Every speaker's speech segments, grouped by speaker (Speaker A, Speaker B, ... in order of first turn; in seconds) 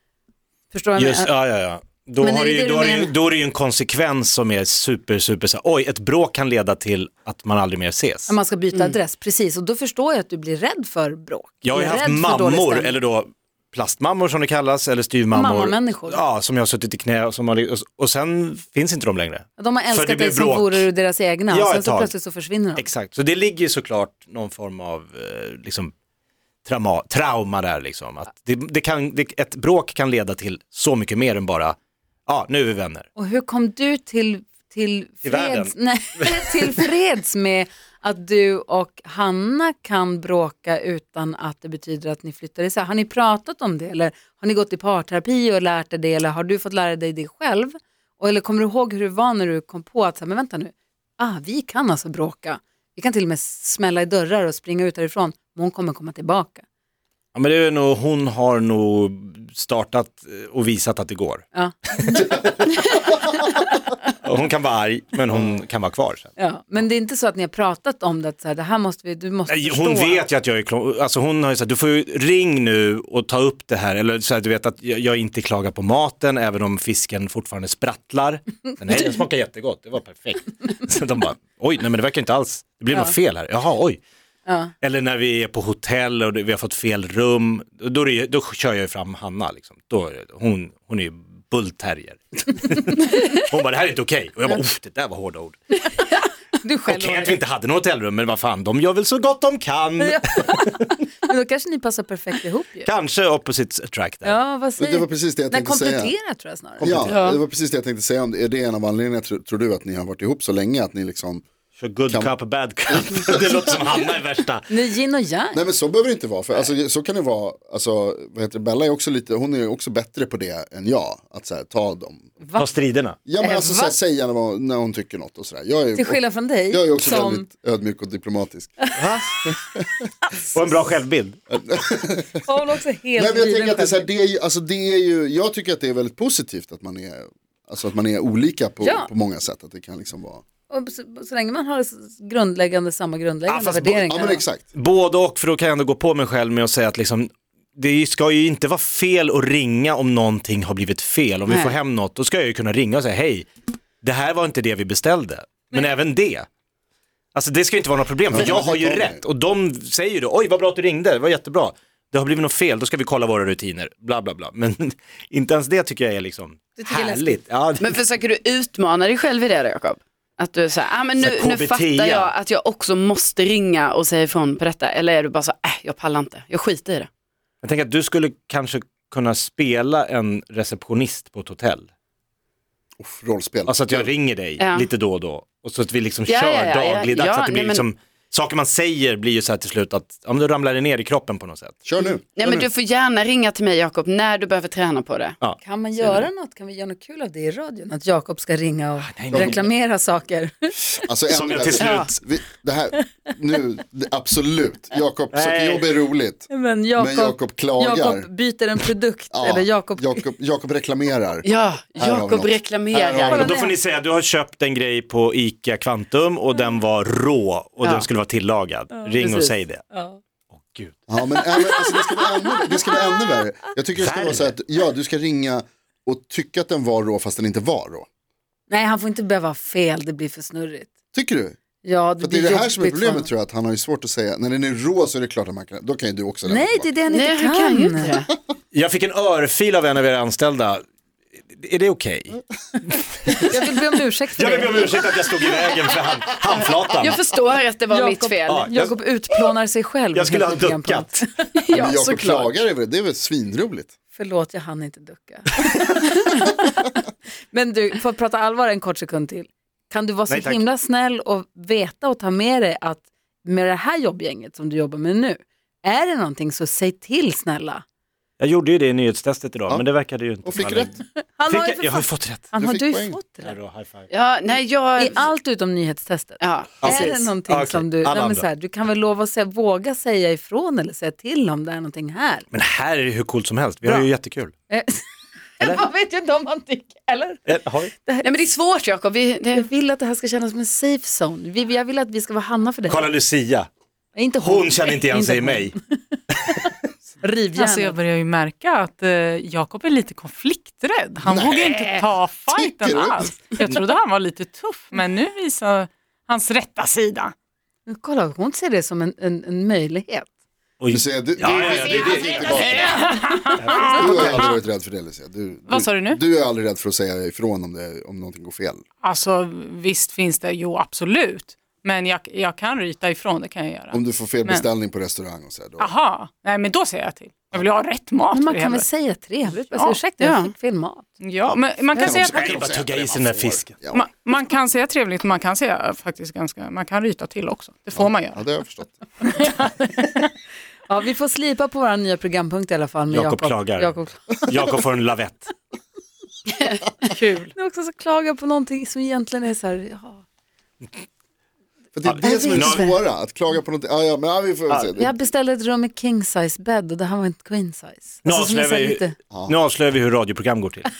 Speaker A: 0.7-1.3, 2.2-3.1, 8.3-13.0, 15.3-16.2, 19.6-22.8, 33.1-56.6, 61.5-63.5, 66.4-70.3, 84.5-84.7, 96.0-97.3, 100.0-102.9, 104.2-107.2, 114.7-115.6, 122.4-122.7, 123.4-123.9, 125.9-127.5, 132.4-134.1, 138.8-139.1, 140.7-144.4, 166.8-167.3, 195.6-200.8, 206.5-210.2, 213.3-213.8, 219.0-220.2, 221.7-222.5, 228.7-230.9, 231.8-233.3, 236.4-238.1, 243.4-245.0, 247.9-251.4, 254.1-256.7, 257.5-267.8, 271.4-273.5, 275.0-282.5, 284.7-285.0, 285.6-288.3, 289.5-293.1, 294.1-296.7, 297.2-297.9, 307.9-310.3, 313.8-314.1, 328.3-331.1, 340.9-344.5, 347.5-350.2, 352.2-353.0, 354.9-359.1
Speaker B: 0.9-8.3, 11.6-20.9, 21.5-22.1, 22.8-25.9, 26.6-31.8, 32.3-33.1, 35.2-36.5, 57.3-61.5, 62.1-62.7, 64.2-66.3, 69.5-84.0, 84.8-95.6, 96.9-100.9, 102.8-104.3, 106.8-107.1, 111.8-114.7, 122.5-123.2, 128.9-129.3, 130.5-131.4, 143.5-144.1, 144.7-153.5, 154.0-156.5, 157.3-168.0, 171.2-172.3, 177.6-181.9, 183.7-191.8, 195.4-196.2, 199.0-199.7, 201.3-202.1, 205.3-205.9, 213.4-219.8, 220.5-221.0, 223.9-224.5, 238.7-240.8, 241.5-242.4, 244.3-247.2, 248.5-248.9, 250.1-251.2, 260.3-260.6, 268.4-270.9, 271.5-272.5, 273.4-274.1, 276.8-278.4, 282.5-284.5, 287.4-287.9, 292.9-293.7, 294.4-295.7, 310.8-312.6, 332.2-333.8, 343.1-343.9, 344.5-345.5, 352.0-352.9, 358.2-360.9
Speaker C: 104.8-106.1, 106.8-111.4, 112.9-113.4, 115.5-122.3, 123.2-128.8, 129.4-129.8, 131.5-132.4, 133.2-140.4, 143.9-144.7, 158.3-159.2, 183.0-184.1, 191.8-192.7, 199.3-199.6, 200.9-208.3, 209.3-211.5, 212.0-213.6, 221.1-228.1, 231.1-231.6, 232.2-236.9, 251.7-253.9, 270.4-270.9, 272.6-273.2, 301.2-303.5, 310.9-313.0, 313.9-318.8, 323.9-325.9, 331.4-334.1, 337.9-339.0, 351.9-355.1
Speaker D: 107.1-107.4, 151.5-151.8, 167.8-177.1, 184.6-184.9, 186.3-187.8, 192.3-195.3, 201.8-202.1, 211.4-213.5, 237.1-238.3, 247.0-248.7, 251.6-252.5, 274.1-275.2, 276.4-276.9, 288.2-289.6, 330.2-330.5
Speaker E: 297.5-307.3, 312.1-314.5, 315.7-316.2, 319.0-324.7, 325.8-328.9, 329.4-330.0, 331.2-332.6, 333.9-338.4, 339.3-340.2, 347.1-347.5